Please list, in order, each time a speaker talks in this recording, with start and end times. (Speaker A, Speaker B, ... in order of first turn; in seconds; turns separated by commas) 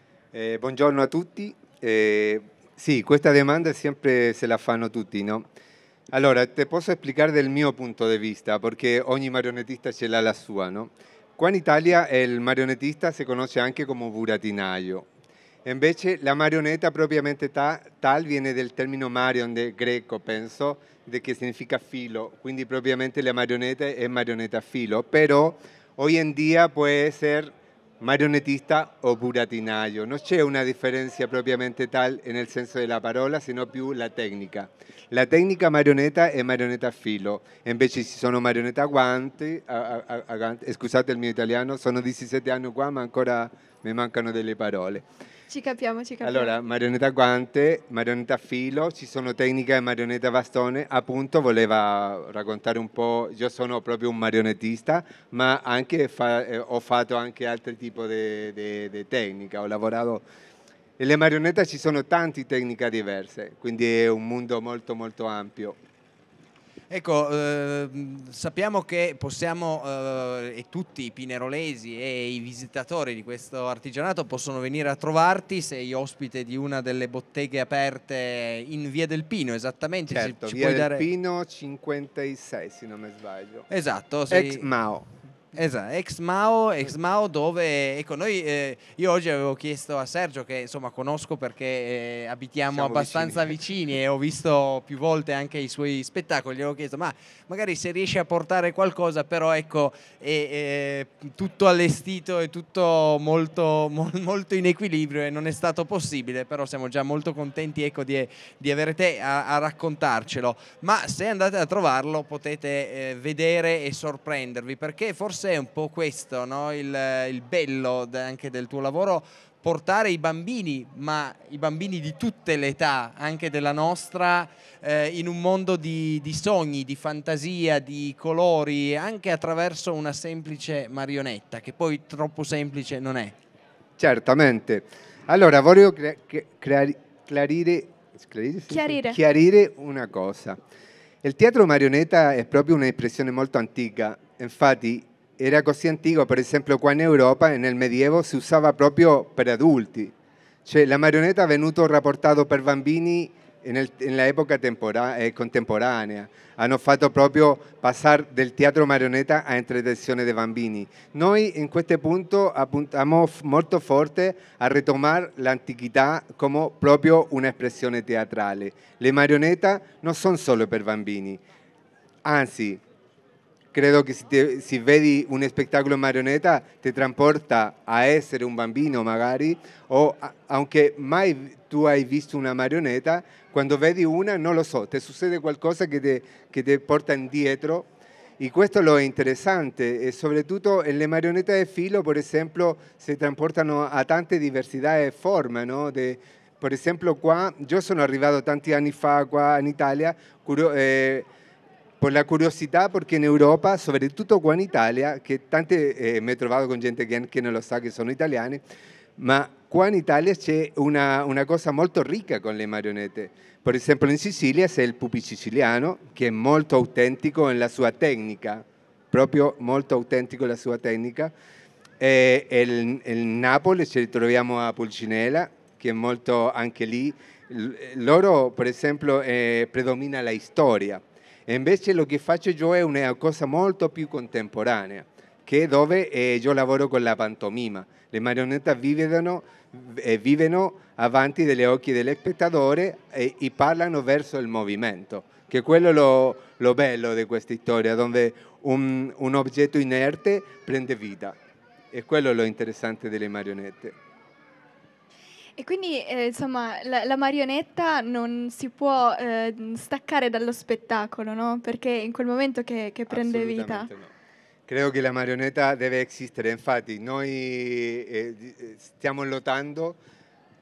Speaker A: 0.3-5.5, Speaker A: 6.1-15.1, Speaker A: 15.6-45.0, Speaker B: 45.5-46.5, Speaker A: 46.2-60.2, Speaker A: 61.0-65.8, Speaker C: 66.9-81.0, Speaker A: 80.1-83.7, Speaker C: 83.7-84.7, Speaker A: 84.3-85.1, Speaker C: 85.5-133.3, Speaker A: 92.7-93.5, Speaker A: 134.0-140.6, Speaker B: 138.7-139.2, Speaker A: 141.2-150.1, Speaker A: 150.6-171.4, Speaker A: 172.2-172.8, Speaker A: 173.7-187.9, Speaker A: 188.4-201.2, Speaker A: 202.0-208.6, Speaker A: 209.2-221.3, Speaker A: 222.0-251.3, Speaker A: 251.9-253.9, Speaker B: 255.6-263.9, Speaker A: 263.1-264.1, Speaker A: 264.7-270.0